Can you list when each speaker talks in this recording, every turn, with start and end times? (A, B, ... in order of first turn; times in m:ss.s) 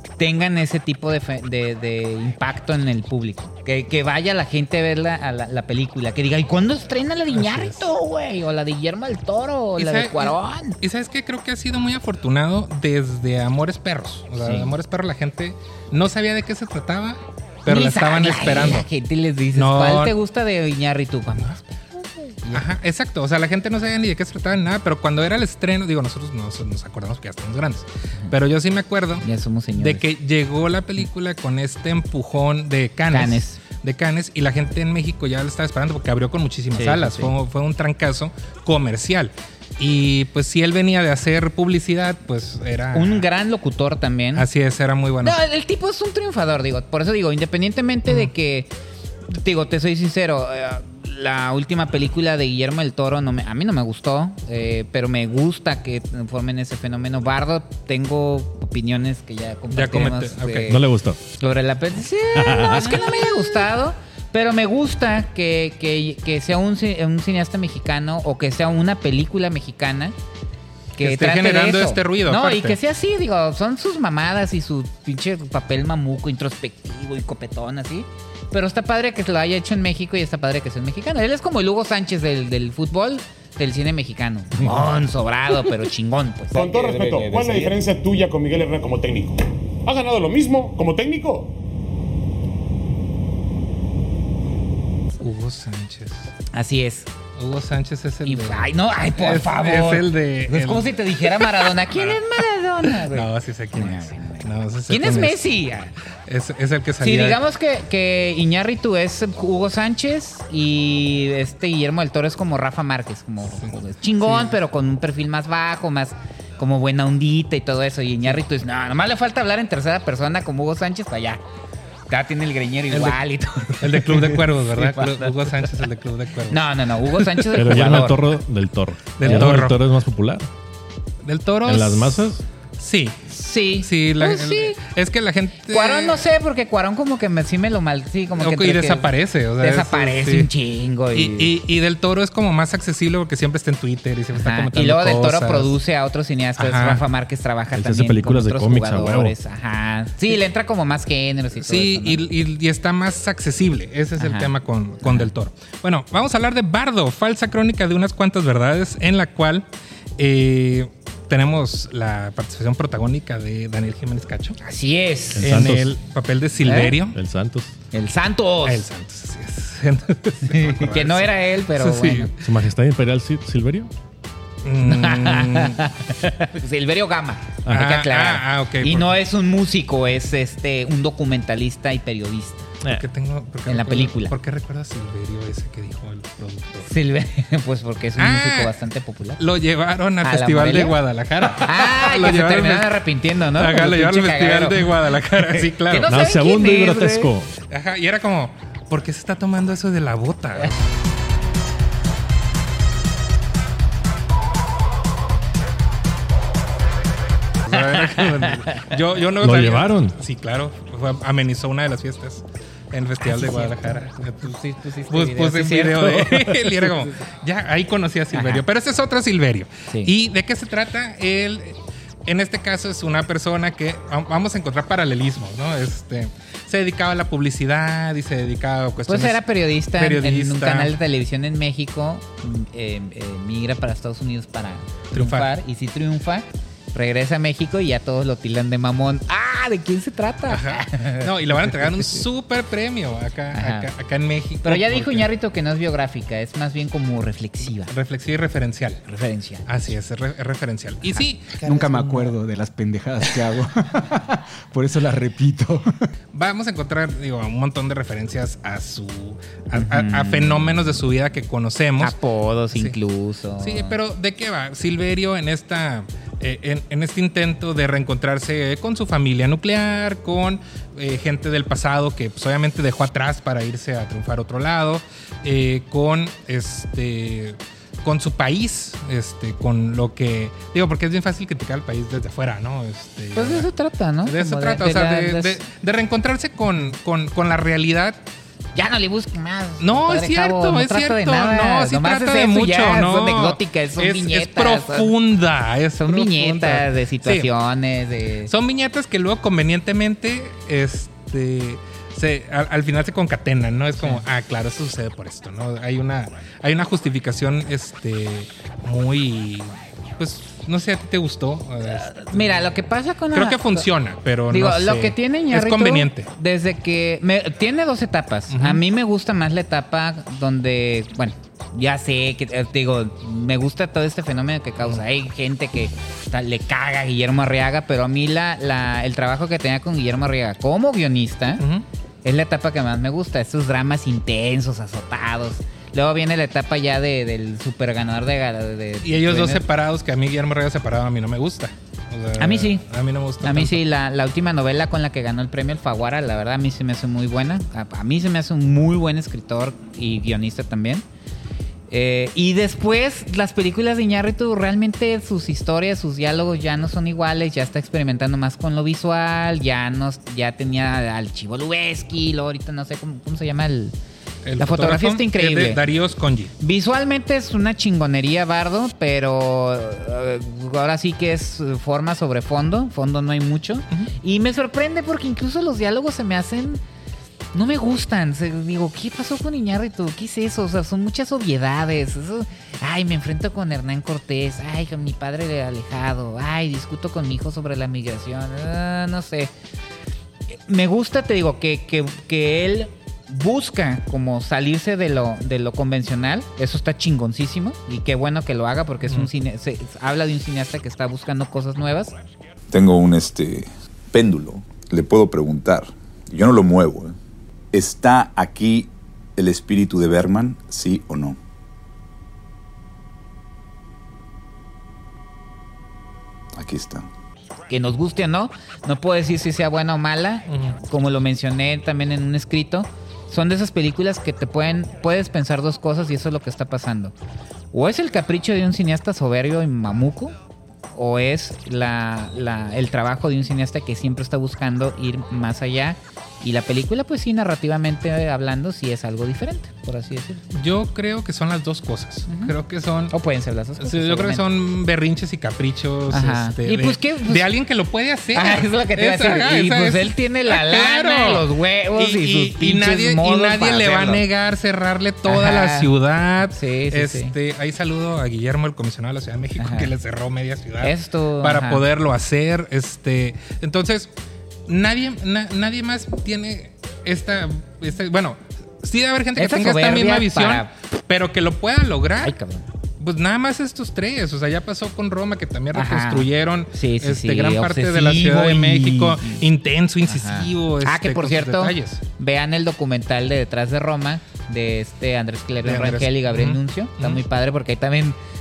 0:00.2-0:10.8 A
0:07.3-0:07.9 B
0:09.8-0:18.9 B
0:14.4-0:14.7 A
0:17.7-0:22.6 A
0:19.5-0:20.1 B
0:22.5-0:43.3 B
0:29.2-0:30.0 A
0:33.1-0:33.6 A
0:36.7-0:37.3 A
0:42.9-0:44.5 A
0:44.3-0:45.4 B
0:45.2-0:48.7 A
0:49.3-1:00.8 A
0:59.7-1:00.7 B
1:00.7-1:01.2 C
1:01.4-1:10.1 A
1:02.4-1:03.4 C
1:11.0-1:27.7 A
1:11.0-1:12.8 B
1:26.5-1:31.5 D
1:35.2-1:36.3 B
1:36.5-1:37.1 A
1:37.4-1:45.5 B
1:38.2-1:45.9 A
1:46.2-1:47.4 B
1:47.0-2:01.4 A
1:53.5-1:54.6 B
2:02.1-2:05.7 A
2:02.9-2:03.2 B
2:03.8-2:08.1 B
2:06.5-2:08.3 A
2:07.5-2:10.5 C
2:09.2-2:09.8 B
2:11.2-2:13.3 B
2:11.7-2:12.4 C
2:13.3-2:14.8 A
2:13.8-2:16.2 B
2:15.7-2:19.1 A
2:18.3-2:20.5 B
2:19.6-2:21.5 A
2:21.1-2:25.8 B
2:24.3-2:32.2 A
2:26.6-2:27.0 B
2:27.7-2:29.3 C
2:31.6-2:39.6 B
2:34.2-2:34.5 A
2:35.0-2:35.3 A
2:40.2-2:44.6 B
2:44.6-2:45.5 A
2:45.4-2:45.9 C
2:45.4-2:47.2 B
2:46.6-2:47.0 A
2:47.1-2:47.7 C
2:47.9-2:48.8 A
2:48.6-2:52.3 B
2:50.4-2:52.3 A
2:52.4-2:53.9 C
2:54.6-2:55.8 B
2:54.8-3:02.7 A
2:57.7-2:59.2 B
3:02.8-3:06.9 B
3:03.7-3:04.3 A
3:06.8-3:09.4 A
3:08.2-3:08.8 B
3:09.4-3:13.0 B
3:10.2-3:17.3 A
3:13.5-3:16.2 B
3:16.1-3:17.5 C
3:17.7-3:20.8 B
3:27.6-3:34.6 B
3:27.7-3:28.8 A
3:29.4-3:30.2 C
3:33.2-3:37.2 A
3:35.1-3:50.9 B
3:38.3-3:38.6 A
3:49.0-4:02.2 A
3:55.1-3:55.5 B
4:00.5-4:05.3 B
4:03.5-4:03.9 A
4:04.6-4:07.9 A
4:07.9-4:09.0 B
4:09.1-4:09.7 A
4:09.7-4:11.7 B
4:11.2-4:12.3 A
4:11.6-4:15.9 E
4:16.3-4:22.2 B
4:19.7-4:20.7 A
4:22.0-4:24.0 A
4:22.7-4:23.0 B
4:23.6-4:43.7 B
4:43.3-4:45.6 A
4:44.2-4:48.2 B
4:48.7-4:55.1 A
4:49.8-4:57.5 B
4:56.0-4:58.5 A
4:58.5-5:12.7 B
5:11.8-5:13.9 A
5:13.3-5:16.3 B
5:14.5-5:31.6 A
5:18.5-5:18.8 B
5:24.8-5:25.0 B
5:31.6-5:31.8 B
5:32.2-5:39.6 A
5:39.0-5:43.8 B
5:42.4-5:42.8 A
5:43.4-5:51.0 A
5:51.9-6:03.9 A
6:04.4-6:06.5 B
6:04.6-6:05.8 A
6:06.6-6:16.8 A
6:17.5-6:29.5 A
6:30.7-6:42.1 A
6:39.0-6:39.3 B
6:42.7-6:47.2 F
6:47.7-6:51.4 F
6:56.5-6:57.1 F
6:57.7-7:07.1 A
7:00.5-7:00.8 B
7:07.7-7:10.3 A
7:10.9-7:20.5 A
7:20.5-7:23.1 B
7:22.3-7:22.5 A
7:23.1-7:24.4 A
7:23.8-7:44.1 B
7:26.1-7:27.5 A
7:28.3-7:34.2 A
7:35.3-7:35.9 A
7:36.5-7:37.3 A
7:39.6-7:39.9 A
7:40.8-7:41.8 A
7:44.7-7:52.4 B
7:49.4-7:50.7 A
7:52.2-7:52.7 A
7:53.0-8:02.0 B
7:55.7-7:59.4 A
8:00.0-8:08.2 A
8:05.6-8:07.2 B